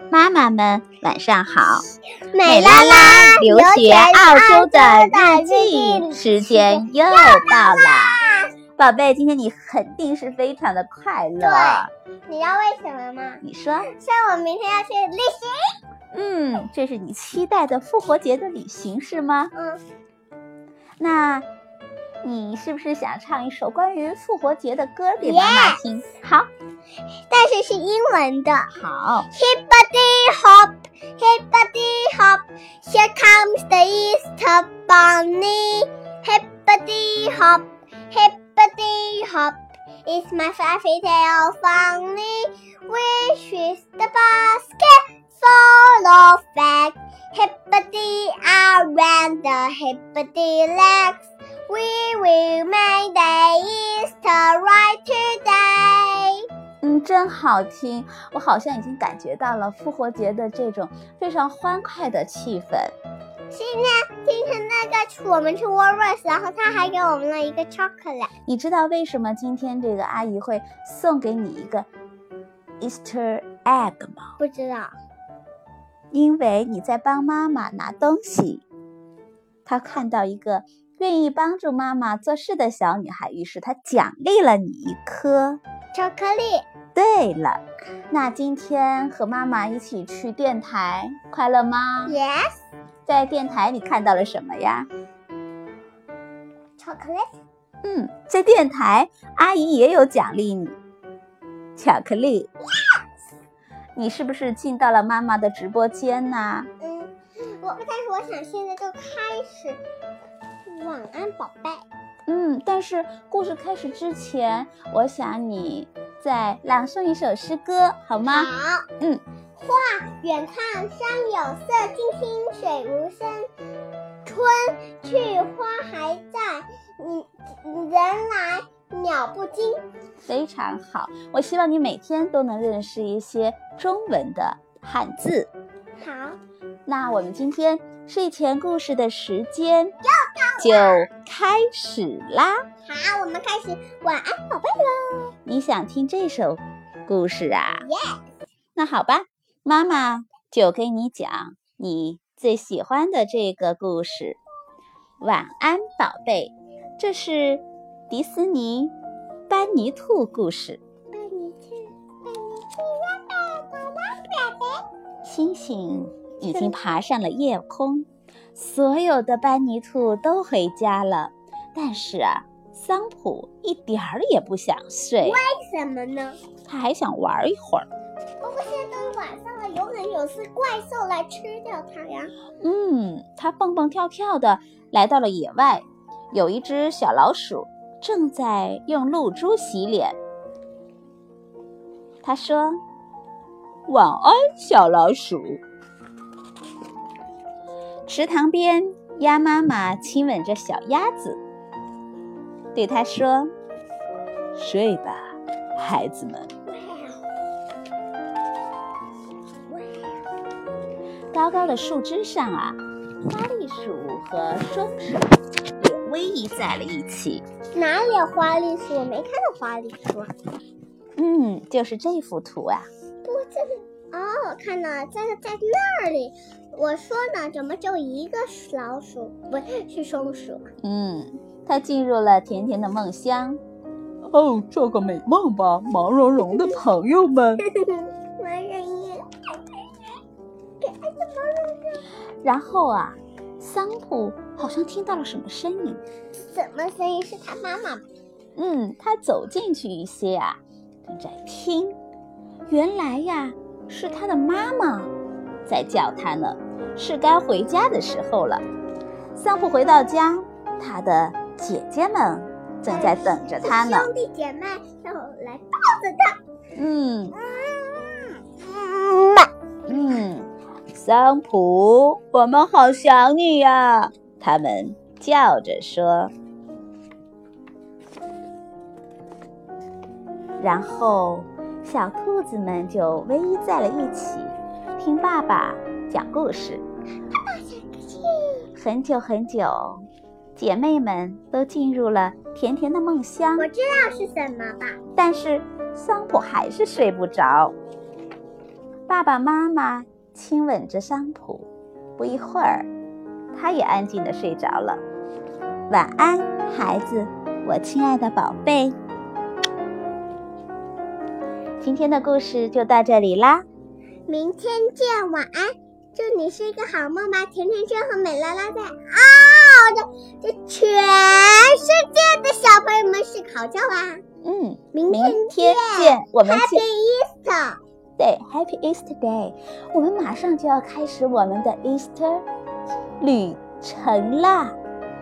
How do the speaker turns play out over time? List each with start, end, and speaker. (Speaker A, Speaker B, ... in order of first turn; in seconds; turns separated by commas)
Speaker A: 0.1-1.9, Speaker B: 2.2-8.5, Speaker A: 2.5-8.2, Speaker A: 8.8-11.9, Speaker B: 11.4-15.7, Speaker A: 13.4-13.9, Speaker A: 16.1-19.5, Speaker B: 19.6-19.8, Speaker A: 21.0-21.5, Speaker A: 22.2-26.5, Speaker B: 25.2-25.8, Speaker B: 27.3-28.7, Speaker A: 28.7-29.3, Speaker B: 29.3-56.4, Speaker A: 56.8-62.9, Speaker B: 63.5-68.3, Speaker A: 68.5-71.9, Speaker A: 72.8-74.3, Speaker B: 74.4-74.9, Speaker A: 76.1-78.7, Speaker A: 79.7-85.6, Speaker B: 85.9-86.7, Speaker A: 87.0-92.2, Speaker B: 92.1-92.5, Speaker A: 93.1-94.9, Speaker B: 96.8-97.3, Speaker A: 97.8-100.8, Speaker A: 101.8-102.5, Speaker A: 104.0-106.7, Speaker B: 106.8-109.8, Speaker B: 110.7-111.8, Speaker A: 112.3-119.2, Speaker B: 118.2-118.9, Speaker B: 119.6-123.5, Speaker B: 124.2-129.8, Speaker A: 130.3-135.5, Speaker B: 136.0-136.4, Speaker A: 136.9-139.9, Speaker B: 140.0-141.1, Speaker A: 140.6-142.6, Speaker B: 142.9-145.3, Speaker A: 145.5-147.9, Speaker B: 147.8-148.2, Speaker A: 148.8-154.4, Speaker A: 155.2-158.9, Speaker A: 159.5-160.8, Speaker B: 161.1-164.8, Speaker A: 165.2-175.4, Speaker B: 166.4-166.7, Speaker B: 175.2-176.4, Speaker A: 176.7-177.9, Speaker B: 178.4-182.3, Speaker A: 182.6-190.2, Speaker A: 192.2-192.8, Speaker A: 193.9-195.6, Speaker A: 198.1-201.4, Speaker A: 202.8-203.5, Speaker A: 204.6-205.2, Speaker A: 205.8-206.5, Speaker B: 206.7-207.2, Speaker B: 209.7-210.2, Speaker A: 211.3-217.4, Speaker B: 217.8-220.3, Speaker A: 221.2-222.9, Speaker B: 223.2-230.7, Speaker A: 230.8-233.6, Speaker A: 234.2-237.6, Speaker B: 237.7-239.3, Speaker B: 240.8-242.0, Speaker A: 242.4-246.0, Speaker B: 246.5-248.0, Speaker A: 248.6-251.9, Speaker A: 252.7-255.1, Speaker A: 255.7-258.6, Speaker A: 259.4-264.1, Speaker B: 262.9-266.4, Speaker A: 266.8-267.4, Speaker B: 267.5-269.5, Speaker A: 269.9-276.3, Speaker A: 280.6-286.8, Speaker B: 287.4-288.7, Speaker A: 288.8-290.1, Speaker A: 290.6-293.7, Speaker B: 293.6-295.0, Speaker A: 295.2-297.8, Speaker A: 299.1-302.9, Speaker A: 303.5-305.0, Speaker A: 305.9-309.0, Speaker A: 311.8-313.6, Speaker B: 314.3-324.2, Speaker A: 324.4-326.8, Speaker B: 324.9-327.8, Speaker A: 328.2-332.4, Speaker A: 333.2-334.8